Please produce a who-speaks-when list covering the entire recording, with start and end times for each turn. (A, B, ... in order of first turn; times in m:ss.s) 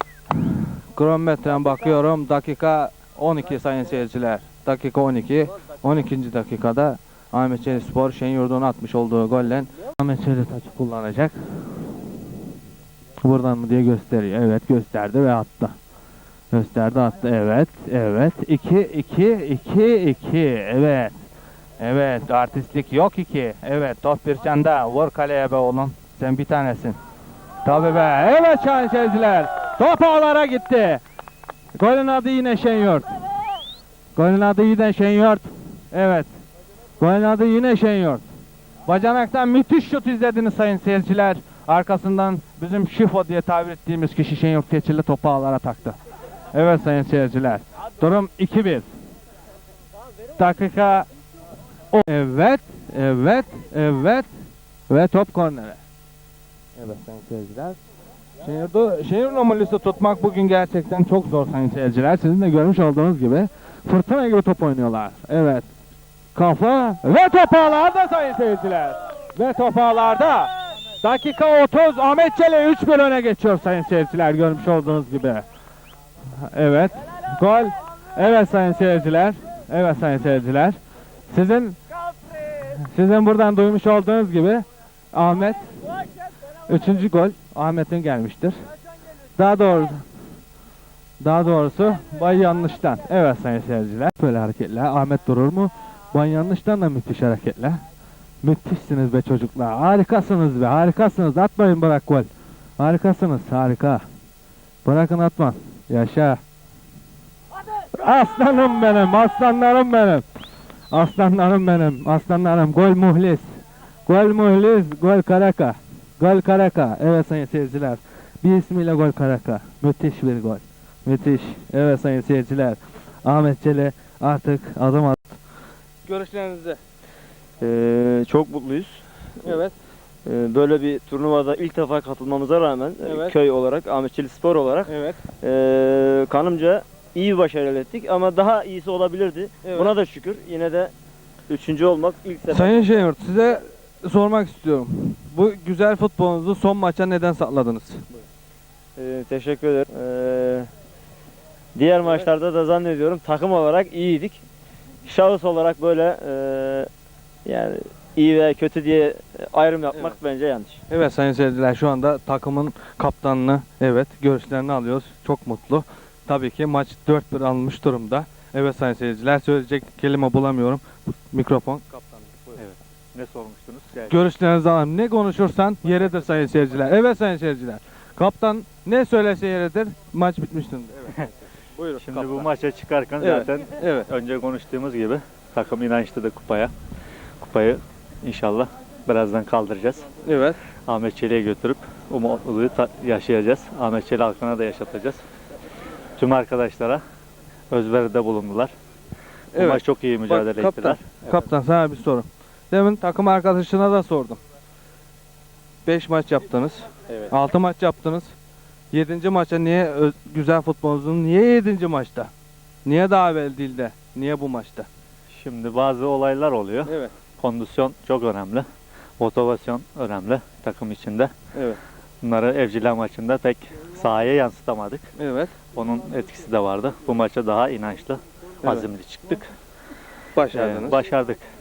0:00.9-0:11.4 A
0:13.2-0:15.7 A
0:16.5-0:21.1 A
0:21.8-0:27.0 A
0:27.6-0:31.0 A
0:31.8-0:33.1 A
0:34.2-0:36.3 A
0:37.0-0:38.2 A
0:38.9-0:46.0 A
0:46.5-0:48.8 A
0:50.4-0:51.0 A
0:51.9-0:54.3 A
0:54.9-0:55.8 A
0:56.8-0:57.8 A
0:58.4-1:05.6 A
1:06.3-1:10.5 A
1:11.0-1:15.4 A
1:16.5-1:20.8 A
1:21.3-1:21.8 A
1:22.8-1:25.7 A
1:26.7-1:28.6 A
1:29.4-1:30.0 A
1:31.2-1:37.8 A
1:38.4-1:42.3 A
1:42.8-1:44.0 A
1:44.8-1:46.4 A
1:48.0-1:50.2 A
1:50.9-1:53.5 A
1:54.1-2:05.4 A
2:06.0-2:06.8 A
2:07.6-2:09.6 B
2:09.4-2:09.7 A
2:10.2-2:20.9 B
2:13.0-2:13.3 A
2:14.8-2:15.2 A
2:19.6-2:19.9 A
2:21.5-2:22.9 B
2:22.5-2:28.0 A
2:29.0-2:30.7 B
2:31.7-2:34.4 B
2:35.0-2:36.9 B
2:37.4-2:40.8 B
2:40.9-2:52.6 A
2:52.6-2:54.2 C
2:54.1-3:01.2 A
3:01.8-3:02.5 A
3:02.0-3:06.7 C
3:03.2-3:04.1 A
3:07.4-3:10.0 C
3:10.2-3:10.6 A
3:10.9-3:15.2 C
3:16.2-3:17.0 C
3:17.7-3:18.7 C
3:19.5-3:24.4 A
3:19.5-3:21.4 C
3:25.8-3:28.3 A
3:28.9-3:32.3 A
3:32.8-3:34.9 A
3:35.3-3:38.7 C
3:36.8-3:37.1 A
3:39.2-3:41.3 C
3:41.5-3:41.8 A
3:42.2-3:45.0 C
3:45.2-3:45.5 A
3:45.7-3:49.5 C
3:48.6-3:48.9 A
3:50.3-3:51.0 A
3:50.5-3:51.4 C